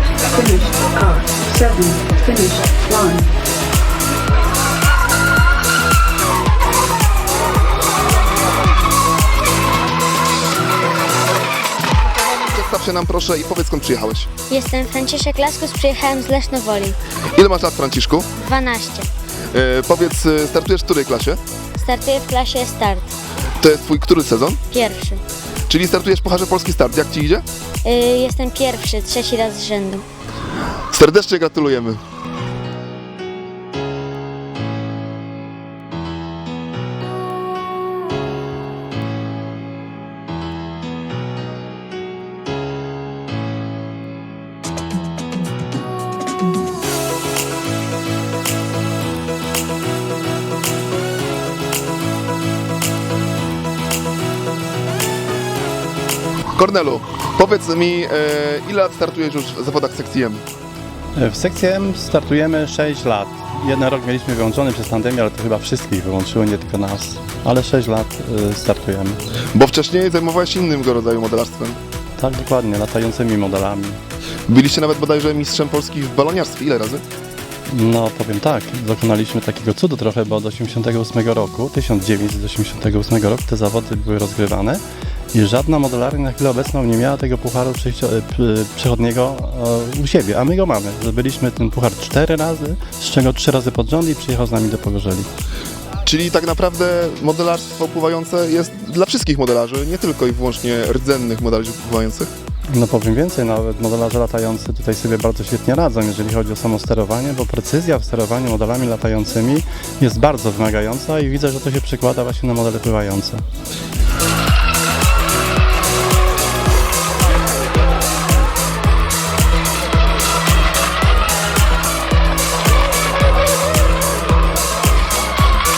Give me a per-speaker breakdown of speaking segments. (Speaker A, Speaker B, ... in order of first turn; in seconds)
Speaker A: 0.3-3.3
Speaker B: 12.5-14.3, 17.3-18.3, 19.5-21.4, 23.6-24.6, 25.7-27.4, 30.9-32.0, 56.6-60.4, 69.5-71.8, 74.5-77.0, 96.0-102.3
Speaker C: 14.5-17.0, 18.4-19.1, 21.8-23.1, 24.7-25.2, 27.8-30.1
Speaker D: 61.1-69.2, 72.2-74.0, 77.7-84.8, 85.3-95.3, 102.7-113.4